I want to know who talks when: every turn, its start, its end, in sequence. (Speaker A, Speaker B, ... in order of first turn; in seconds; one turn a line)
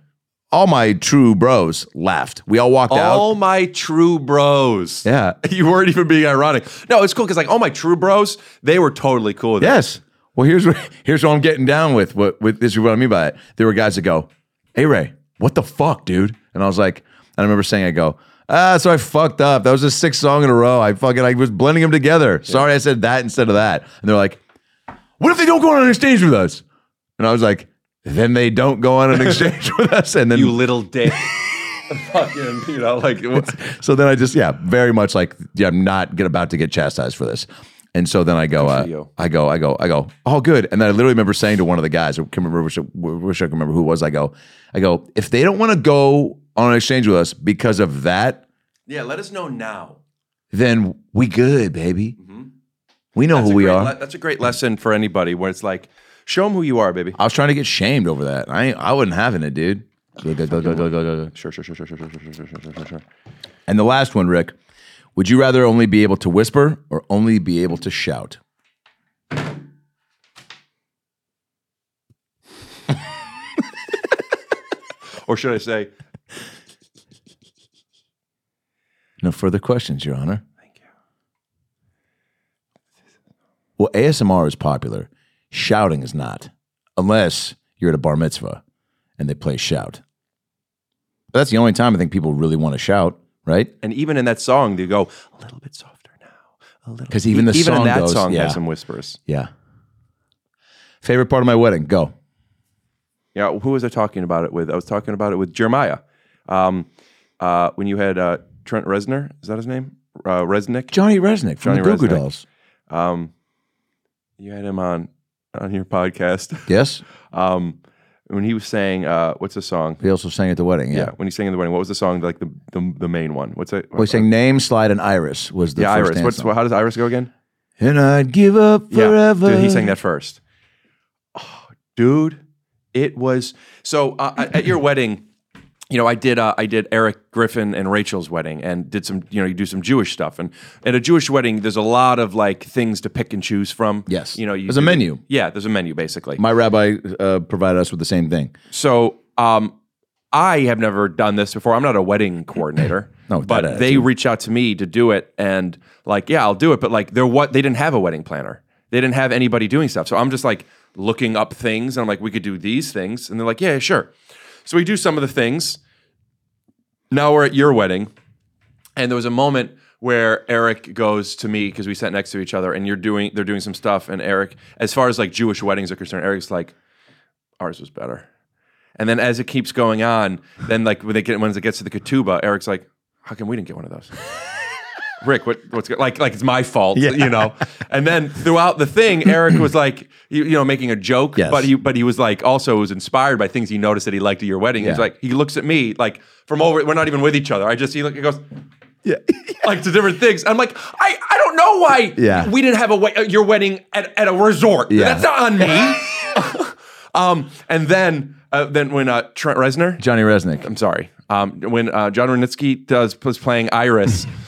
Speaker A: 0.5-3.3
Speaker B: 2.9-9.8
Speaker A: 5.0-5.4
Speaker A: 9.6-24.4
Speaker A: 25.2-26.6
Speaker A: 27.2-31.1
Speaker B: 30.3-33.6
Speaker A: 33.4-48.4
Speaker B: 38.6-39.1
Speaker B: 48.9-50.0
Speaker A: 50.5-52.2
Speaker B: 52.2-52.5
Speaker A: 53.1-53.9
Speaker B: 53.3-57.2
Speaker A: 57.2-61.3
Speaker B: 60.5-63.0
Speaker A: 63.7-64.5
Speaker A: 65.2-68.4
Speaker B: 75.2-75.9
Speaker A: 79.2-80.4
Speaker A: 83.8-88.6
Speaker A: 89.2-90.0
Speaker A: 91.3-93.7
Speaker B: 93.8-99.2
Speaker A: 97.1-98.6
Speaker A: 101.0-102.1
Speaker B: 103.3-106.9
Speaker B: 107.4-111.0
Speaker A: 110.9-112.4
Speaker B: 111.6-112.2
Speaker B: 112.9-113.3
Speaker B: 114.4-116.7
Speaker A: 116.7-117.0
Speaker B: 117.3-117.8
Speaker B: 118.3-120.0
Speaker A: 120.0-121.1
Speaker B: 120.9-124.3
Speaker A: 124.0-126.5
Speaker B: 125.8-127.3
Speaker A: 127.8-129.9
Speaker B: 128.9-130.4
Speaker B: 131.3-132.4
Speaker B: 132.9-135.2
Speaker B: 135.9-146.4
Speaker A: 144.1-145.2
Speaker A: 146.4-148.5
Speaker B: 148.7-149.8
Speaker B: 150.3-164.1
Speaker A: 153.3-154.1
Speaker B: 164.7-165.8
Speaker B: 167.1-168.1
Speaker B: 169.0-176.7
Speaker B: 177.6-178.2
Speaker B: 179.0-184.1
Speaker B: 185.2-198.4
Speaker A: 186.9-187.5
Speaker A: 191.4-191.7
Speaker A: 194.8-195.1
Speaker A: 199.1-199.6
Speaker B: 199.6-210.0
Speaker A: 202.2-202.5
Speaker A: 204.9-205.3
Speaker A: 210.0-210.7
Speaker B: 210.6-214.3